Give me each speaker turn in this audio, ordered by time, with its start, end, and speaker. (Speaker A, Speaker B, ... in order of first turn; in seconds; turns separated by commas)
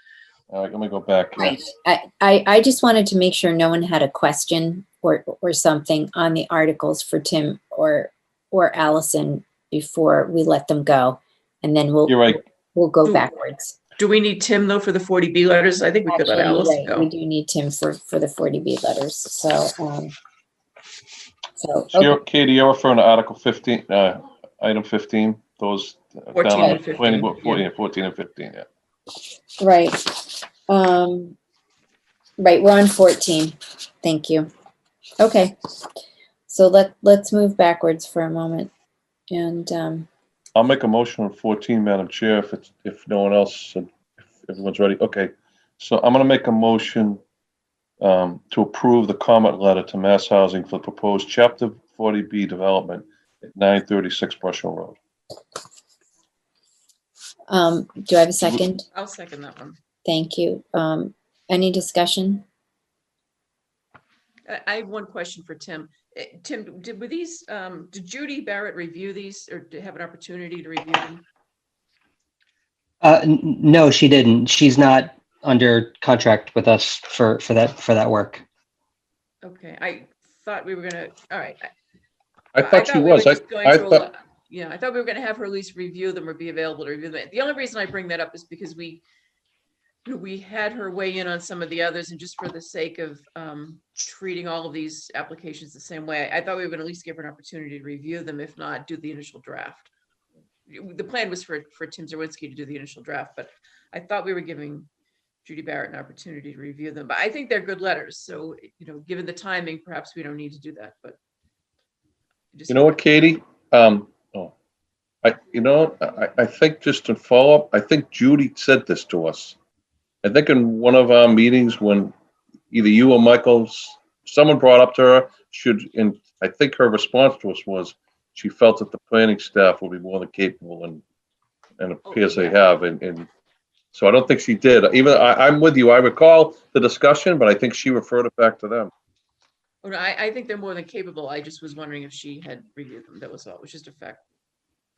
Speaker A: 0.5-1.6, Speaker B: 1.4-13.8, Speaker A: 12.1-12.4, Speaker C: 14.0-17.1, Speaker B: 16.1-20.1, Speaker B: 21.6-22.2, Speaker A: 21.9-28.6, Speaker C: 26.3-27.6, Speaker B: 29.6-31.4, Speaker B: 32.4-34.5, Speaker B: 35.2-35.5, Speaker B: 36.5-38.7, Speaker B: 39.3-40.1, Speaker A: 40.5-47.2, Speaker A: 48.0-55.0, Speaker B: 57.5-58.9, Speaker C: 58.9-59.8, Speaker B: 60.0-62.4, Speaker C: 64.5-71.2, Speaker D: 73.0-78.4, Speaker C: 79.4-81.7, Speaker A: 82.5-84.0, Speaker C: 82.6-89.0, Speaker C: 90.0-99.9, Speaker C: 100.7-104.9, Speaker C: 105.4-111.2, Speaker C: 112.5-113.0, Speaker A: 112.7-114.5, Speaker A: 115.2-119.5, Speaker A: 120.2-122.1, Speaker A: 122.7-131.0, Speaker A: 131.8-133.3, Speaker C: 132.0-132.6, Speaker A: 133.9-138.9, Speaker C: 139.8-144.2